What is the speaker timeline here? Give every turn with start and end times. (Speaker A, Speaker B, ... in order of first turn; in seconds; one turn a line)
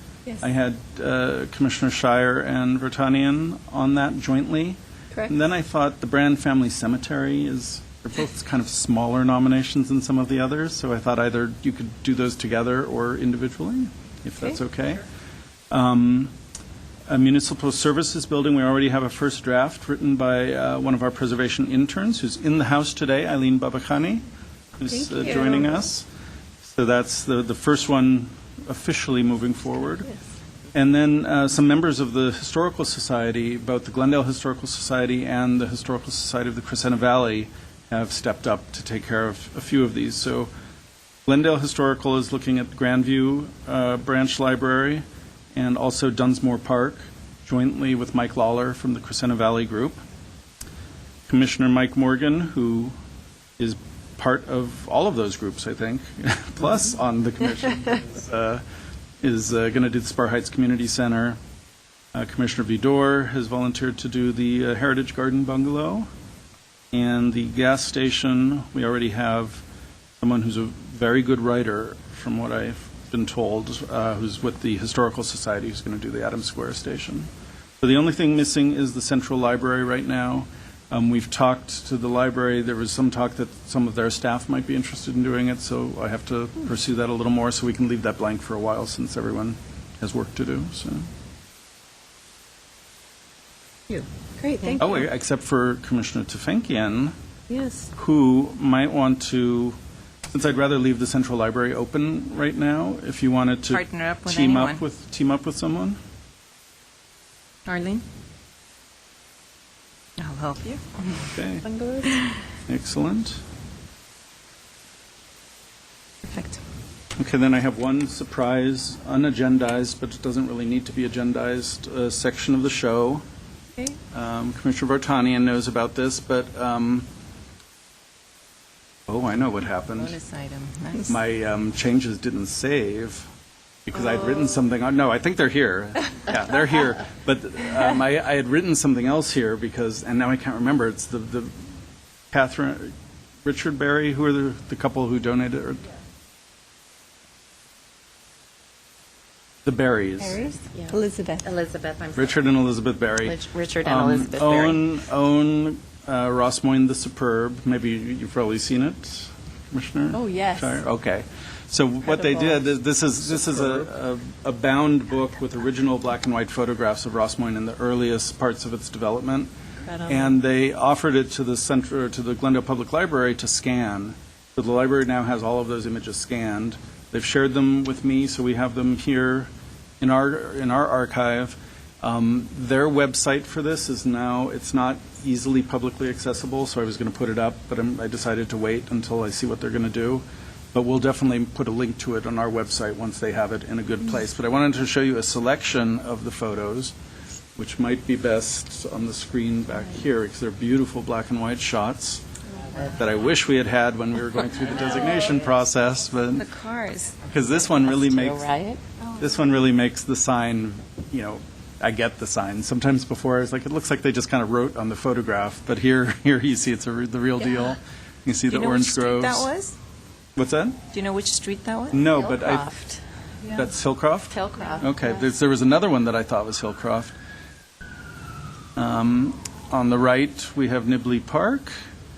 Speaker A: 0.4-15.0
Speaker A: 15.7-16.3
Speaker A: 17.1-24.2
Speaker A: 24.8-26.1
Speaker B: 24.9-25.7
Speaker A: 26.6-30.1
Speaker A: 30.7-40.5
Speaker A: 41.2-50.0
Speaker A: 51.2-52.9
Speaker A: 53.6-58.6
Speaker A: 59.2-61.4
Speaker A: 62.1-66.1
Speaker A: 66.9-69.6
Speaker A: 70.2-91.1
Speaker C: 94.5-94.9
Speaker B: 94.6-95.0
Speaker A: 94.8-97.1
Speaker A: 97.9-99.8
Speaker A: 100.3-106.0
Speaker D: 103.7-104.8
Speaker D: 107.7-108.0
Speaker D: 110.2-111.2
Speaker A: 111.3-111.6
Speaker B: 111.6-112.2
Speaker A: 112.7-113.4
Speaker D: 116.2-116.6
Speaker A: 117.2-123.2
Speaker A: 124.1-127.1
Speaker A: 129.1-130.2
Speaker D: 129.9-131.1
Speaker A: 131.0-133.3
Speaker A: 133.9-141.5
Speaker A: 142.3-142.9
Speaker A: 143.4-145.8
Speaker A: 149.6-150.4
Speaker B: 150.2-151.4
Speaker C: 150.7-152.5
Speaker A: 152.1-169.5
Speaker C: 153.2-154.8
Speaker B: 160.1-160.8
Speaker B: 162.2-162.6
Speaker B: 169.8-170.3
Speaker A: 170.1-179.5
Speaker A: 180.0-196.9
Speaker A: 197.6-202.2
Speaker A: 202.9-206.4
Speaker D: 206.3-207.2
Speaker A: 207.2-208.5
Speaker C: 207.5-208.8
Speaker A: 209.2-219.5
Speaker D: 218.5-219.8
Speaker A: 220.3-220.8
Speaker D: 220.9-222.0
Speaker A: 221.9-222.7
Speaker C: 222.1-223.0
Speaker A: 223.5-227.1
Speaker C: 224.4-225.0
Speaker B: 224.4-225.0
Speaker A: 228.8-231.7